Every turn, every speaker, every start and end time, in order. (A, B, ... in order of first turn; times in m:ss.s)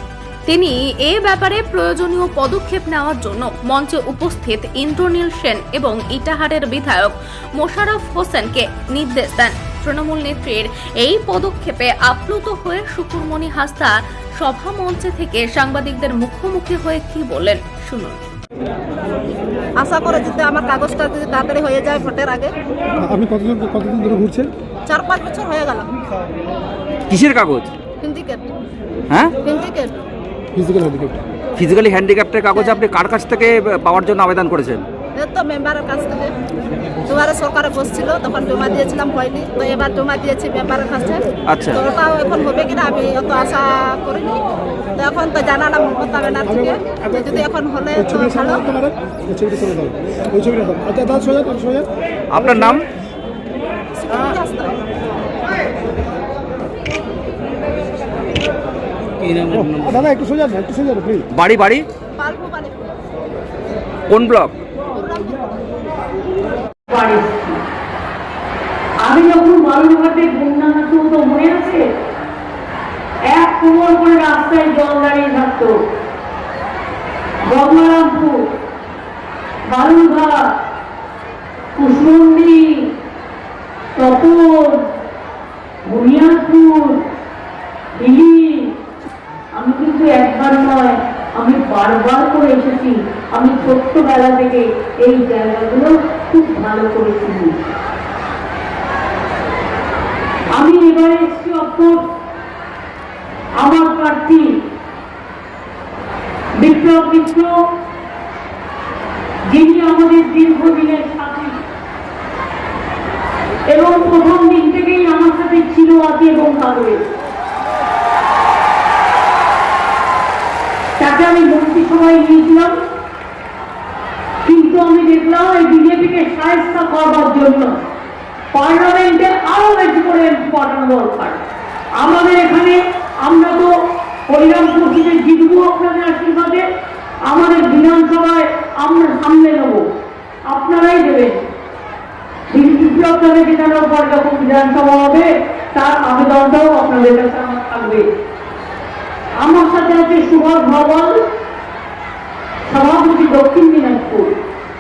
0:00.5-0:18.2 A
0:19.8-0:22.6 B
0:23.1-0:24.4 C
0:24.9-0:25.9 B
0:27.1-0:27.7 D
0:28.0-0:28.5 B
0:29.1-0:29.3 D
0:29.4-0:29.9 B
0:30.7-0:31.0 C
0:31.6-0:34.8 D
0:32.6-0:32.8 B
0:35.2-0:36.3 B
0:37.0-0:44.4 B
0:41.5-0:41.8 D
0:45.0-0:48.7 B
0:49.4-0:51.8 C
0:52.3-0:52.8 D
0:54.0-0:54.8 B
0:59.8-1:01.0 C
1:01.3-1:01.8 D
1:02.2-1:02.9 B
1:04.1-1:04.6 D
1:04.9-1:05.4 B
1:06.9-1:07.6 E
1:09.0-1:11.9 E
1:13.2-1:15.7 E
1:17.4-1:18.5 E
1:19.7-1:20.5 E
1:21.7-1:22.9 E
1:24.0-1:24.9 E
1:25.8-1:27.1 E
1:27.9-1:28.7 E
1:29.5-1:37.6 E
1:40.5-1:42.1 E
1:43.6-1:44.6 E
1:46.6-1:47.6 E
1:49.4-1:51.6 E
1:53.6-1:57.0 E
2:01.0-2:02.8 E
2:04.4-2:07.8 E
2:08.5-2:16.7 E
2:17.2-2:19.9 E
2:20.4-2:21.4 E
2:22.5-2:28.1 E
2:29.4-2:31.2 E
2:32.6-2:34.4 E